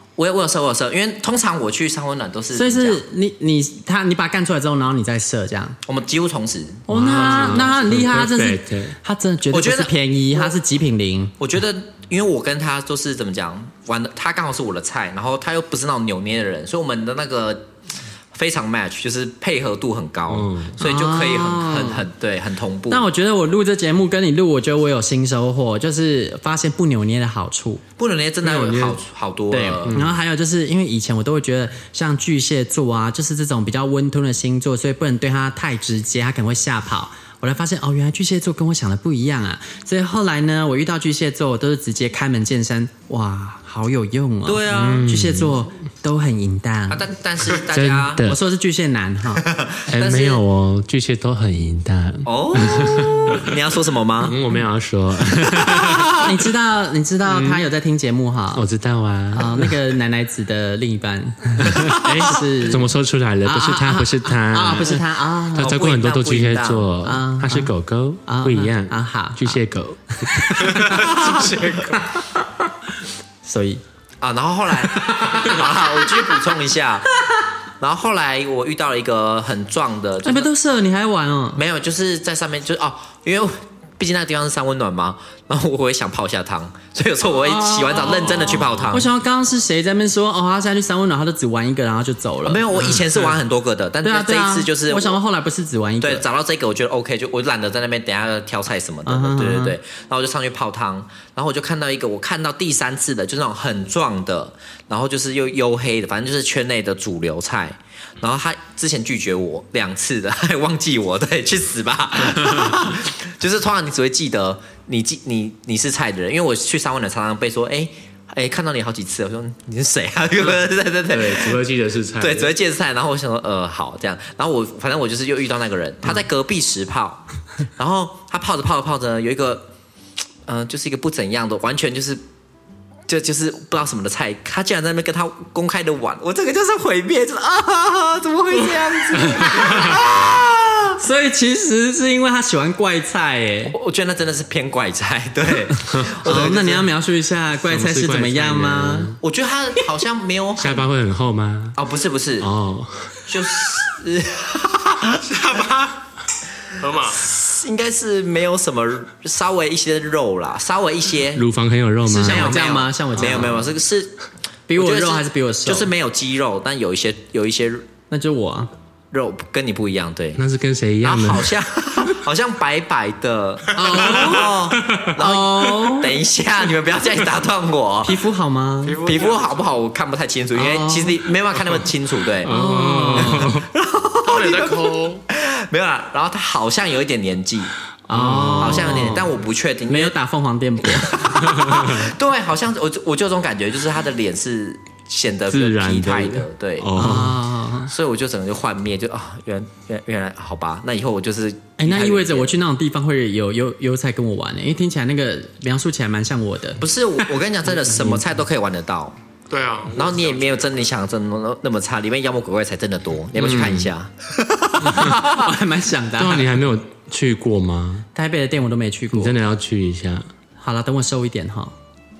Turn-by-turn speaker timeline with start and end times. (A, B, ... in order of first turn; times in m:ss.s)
0:00.2-0:03.0 A
0:02.5-0:05.8 B
0:05.8-0:07.7 A
0:06.9-0:11.3 B
0:06.9-0:09.0 C
0:09.5-0:10.5 A
0:11.4-0:17.7 A
0:18.3-0:23.0 A
0:20.3-0:20.8 C
0:20.8-0:22.0 B
0:22.9-0:27.8 B
0:28.0-0:30.0 A
0:28.4-0:29.0 C
0:29.5-0:47.0 B
0:29.8-0:30.1 C
0:44.4-0:45.1 A
0:44.7-0:45.6 C
0:46.9-0:48.3 A
0:47.6-0:48.4 C
0:48.2-0:49.4 B
0:49.4-0:50.4 A
0:49.9-0:53.5 C
0:52.2-0:54.4 A
0:54.2-0:56.3 C
0:55.6-0:56.0 A
0:56.2-0:58.6 B
0:57.2-0:57.6 C
0:58.5-0:59.7 C
0:59.3-1:02.9 B
1:01.6-1:05.0 C
1:03.4-1:05.7 B
1:05.5-1:10.8 C
1:05.6-1:06.9 A
1:07.0-1:07.7 B
1:08.2-1:09.6 B
1:10.2-1:11.3 B
1:10.7-1:12.0 D
1:11.9-1:12.5 B
1:13.4-1:13.8 B
1:14.2-1:17.1 A
1:15.0-1:15.6 B
1:17.8-1:20.5 A
1:20.2-1:21.6 B
1:21.6-1:29.1 A
1:27.4-1:32.6 B
1:28.4-1:28.8 C
1:32.4-1:35.2 A
1:34.0-1:36.2 B
1:36.0-2:01.6 A
1:39.0-1:39.8 B
2:01.1-2:02.5 C
2:02.2-2:07.2 A
2:07.8-2:09.7 A
2:10.4-2:12.2 A
2:13.1-2:21.0 A
2:19.1-2:19.8 B
2:19.4-2:19.9 C
2:21.0-2:23.7 B
2:23.7-2:26.8 A
2:25.9-2:26.6 C
2:26.2-2:29.2 B
2:27.6-2:29.2 C
2:29.2-2:30.9 A
2:30.6-2:31.8 C
2:31.8-2:32.5 A
2:32.4-2:33.2 C
2:33.3-2:35.4 A
2:35.2-2:36.0 D
2:36.8-2:37.2 D
2:37.1-2:41.4 A
2:41.4-2:42.7 C
2:42.0-2:43.7 B
2:42.2-2:44.2 A
2:43.2-2:43.4 C
2:44.7-2:45.9 B
2:44.7-2:47.9 A
2:48.1-2:48.7 B
2:49.1-2:50.4 A
2:50.4-2:51.5 C
2:51.0-2:58.2 A
2:53.7-2:54.6 B
2:53.9-2:54.2 D
2:55.2-2:56.2 B
2:58.0-2:59.0 B
2:58.8-2:59.6 D
2:59.0-3:02.5 A
3:00.5-3:01.2 B
3:02.4-3:03.6 C
3:02.4-3:03.6 B
3:03.2-3:07.7 A
3:04.2-3:05.2 D
3:08.1-3:09.3 B
3:08.1-3:09.2 C
3:08.6-3:10.1 A
3:09.9-3:11.4 B
3:10.8-3:17.2 A
3:11.4-3:12.1 C
3:15.5-3:17.4 C
3:16.9-3:17.9 B
3:17.8-3:22.5 A
3:21.8-3:26.8 B
3:26.8-3:29.2 A
3:29.5-3:30.8 D
3:29.9-3:35.4 A
3:33.4-3:33.9 C
3:34.8-3:35.2 C
3:34.9-3:36.5 B
3:36.2-3:38.1 C
3:38.1-3:39.3 B
3:39.1-3:40.3 C
3:40.6-3:41.7 B